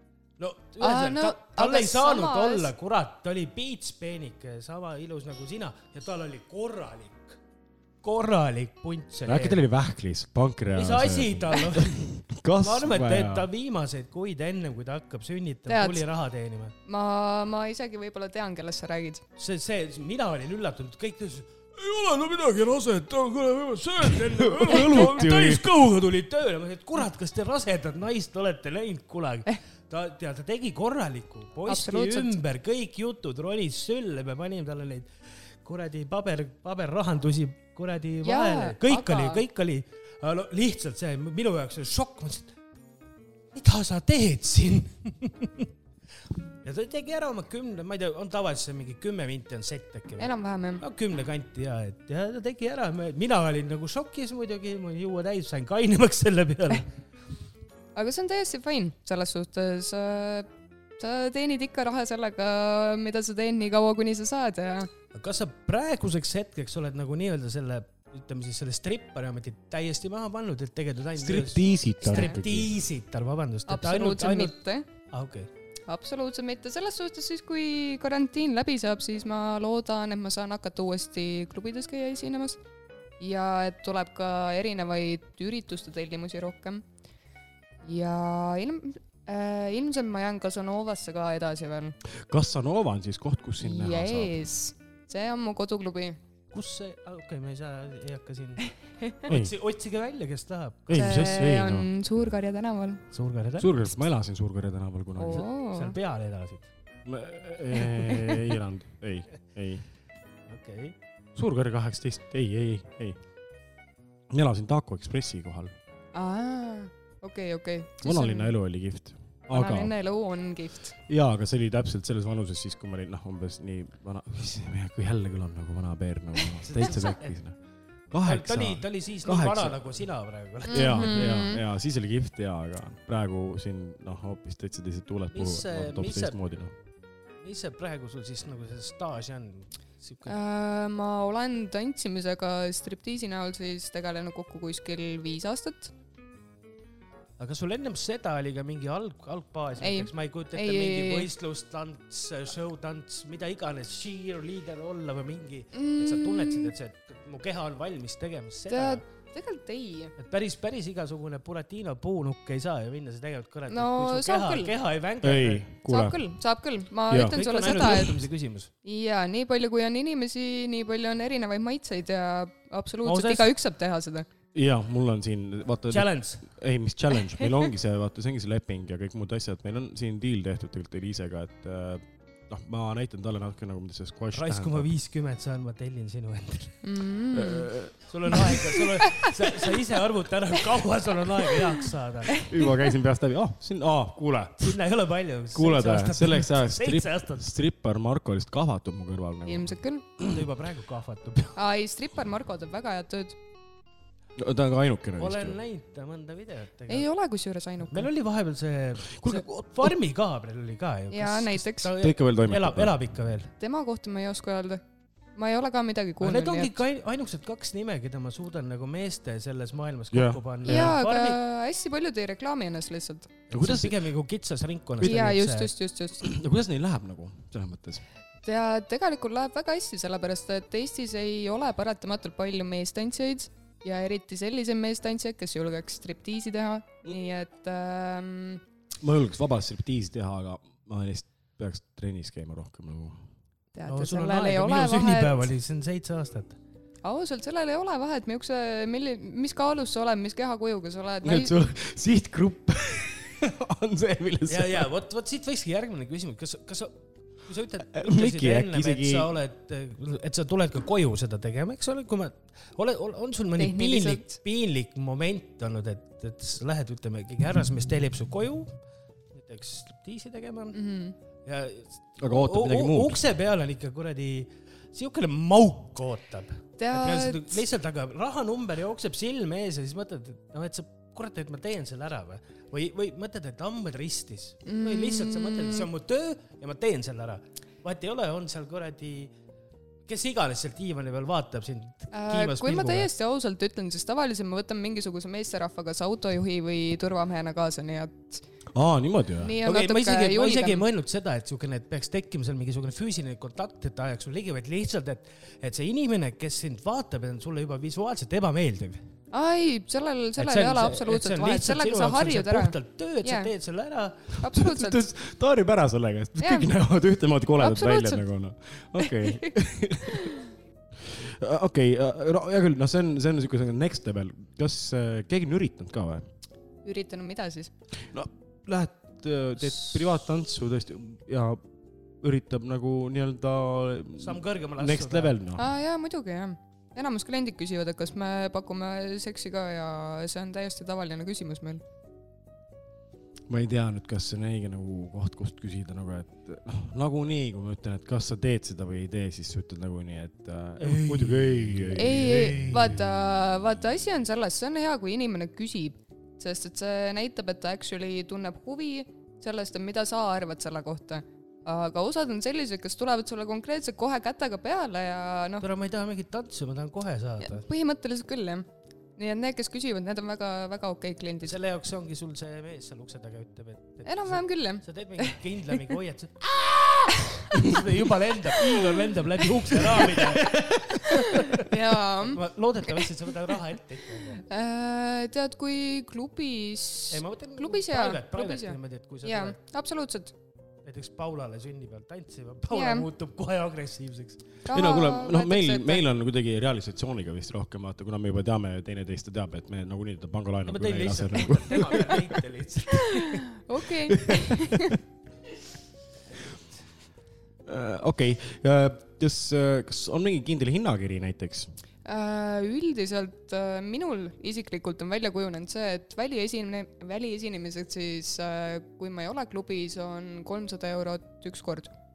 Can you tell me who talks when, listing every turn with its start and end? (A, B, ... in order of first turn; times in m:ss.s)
0:00.4-0:07.4 A
0:00.8-0:02.7 B
0:08.0-0:09.6 A
0:09.2-0:13.5 C
0:10.7-0:16.7 A
0:15.7-0:16.0 B
0:16.8-0:19.2 B
0:19.4-0:35.1 A
0:22.0-0:25.7 C
0:31.7-0:32.3 B
0:35.6-0:42.5 A
0:38.2-0:39.4 B
0:43.5-0:45.7 A
0:46.6-0:56.9 A
0:50.2-0:50.8 B
0:58.0-1:00.5 B
1:01.0-1:04.9 B
1:05.1-1:14.6 A
1:11.2-1:12.7 C
1:12.0-1:12.3 B
1:13.7-1:14.9 B
1:15.1-1:15.5 A
1:15.9-1:22.6 B
1:23.2-1:26.8 B
1:27.8-1:32.0 B
1:32.1-1:34.4 C
1:33.6-1:36.2 B
1:36.5-1:38.7 A
1:39.3-1:41.3 A
1:39.3-1:39.5 C
1:40.9-1:41.9 C
1:40.9-1:43.0 B
1:43.1-1:43.8 A
1:43.6-1:45.4 C
1:45.2-1:46.0 B
1:45.3-1:46.7 A
1:47.0-1:49.8 C
1:50.5-1:50.9 A
1:51.4-1:53.2 C
1:54.3-1:55.7 C
1:56.1-1:58.5 B
1:58.0-1:59.9 C
1:59.5-2:00.9 B
2:01.1-2:07.6 C
2:06.6-2:07.4 A
2:08.1-2:10.1 C
2:08.2-2:11.3 A
2:10.7-2:11.6 B
2:10.7-2:16.7 C
2:15.3-2:16.4 A
2:17.4-2:20.4 A
2:20.2-2:25.9 B
2:27.4-2:39.0 A
2:29.8-2:31.3 B
2:35.7-2:36.7 B
2:38.7-2:40.1 B
2:40.2-2:45.7 A
2:43.7-2:44.7 B
2:45.2-2:46.3 C
2:45.8-2:48.2 B
2:47.1-2:48.0 C
2:47.1-2:48.7 A
2:48.8-2:54.2 B
2:53.0-2:53.5 A
2:54.5-3:04.9 C
2:55.9-2:56.4 A
3:04.3-3:06.8 A
3:06.8-3:07.7 B
3:07.3-3:07.9 C
3:08.1-3:12.5 A
3:09.0-3:09.3 B
3:12.4-3:14.8 C
3:14.6-3:17.4 A
3:15.5-3:20.4 C
3:19.4-3:20.0 B
3:20.2-3:21.5 A
3:21.6-3:23.4 B
3:24.4-3:25.6 C
3:25.2-3:27.1 A
3:26.9-3:28.1 B
3:27.8-3:33.5 A
3:29.1-3:29.9 C
3:31.1-3:31.9 B
3:32.0-3:33.1 C
3:33.6-3:34.8 B
3:35.4-3:36.8 B
3:36.2-3:41.4 A
3:40.1-3:41.0 C
3:40.6-3:43.3 B
3:43.5-3:45.7 A
3:43.5-3:44.0 C
3:45.0-3:45.3 C
3:45.0-3:46.2 B
3:46.2-3:48.0 C
3:48.4-3:58.6 B
3:59.0-4:03.2 C
4:03.7-4:05.5 B
4:03.9-4:06.6 A
4:07.0-4:11.5 B
4:11.2-4:14.9 C
4:14.5-4:28.7 A
4:17.9-4:19.3 C
4:23.6-4:24.4 B
4:29.3-4:30.8 A
4:30.7-4:31.1 B
4:31.4-4:49.3 A
4:32.2-4:33.2 C
4:36.8-4:37.6 B
4:44.6-4:45.9 B
4:50.1-4:53.1 A
4:52.1-4:58.4 B
4:58.7-4:59.6 C
4:59.4-5:00.8 B
4:59.6-5:09.0 A
5:09.3-5:13.5 B
5:10.4-5:14.3 A
5:14.4-5:15.0 B
5:14.5-5:20.3 C
5:16.4-5:16.7 B
5:17.6-5:18.2 B
5:19.0-5:19.5 B
5:21.0-5:26.2 C
5:26.8-5:27.7 B
5:28.0-5:31.6 C
5:32.2-5:35.6 C
5:34.2-5:35.4 A
5:35.6-5:41.8 B
5:43.5-5:53.0 C
5:50.8-5:52.8 A
5:51.9-6:05.6 B
6:05.6-6:07.6 A
6:07.4-6:11.6 B
6:11.4-6:16.5 A
6:14.0-6:15.4 B
6:17.5-6:24.4 A
6:21.0-6:22.4 B
6:24.5-6:30.3 B
6:27.1-6:29.6 A
6:30.8-6:34.5 A
6:32.7-6:33.0 B
6:34.6-6:36.0 B
6:34.7-6:42.4 C
6:40.6-6:43.4 A
6:43.2-6:44.9 B
6:44.3-6:45.0 C
6:47.6-6:51.7 C
6:52.0-7:01.9 B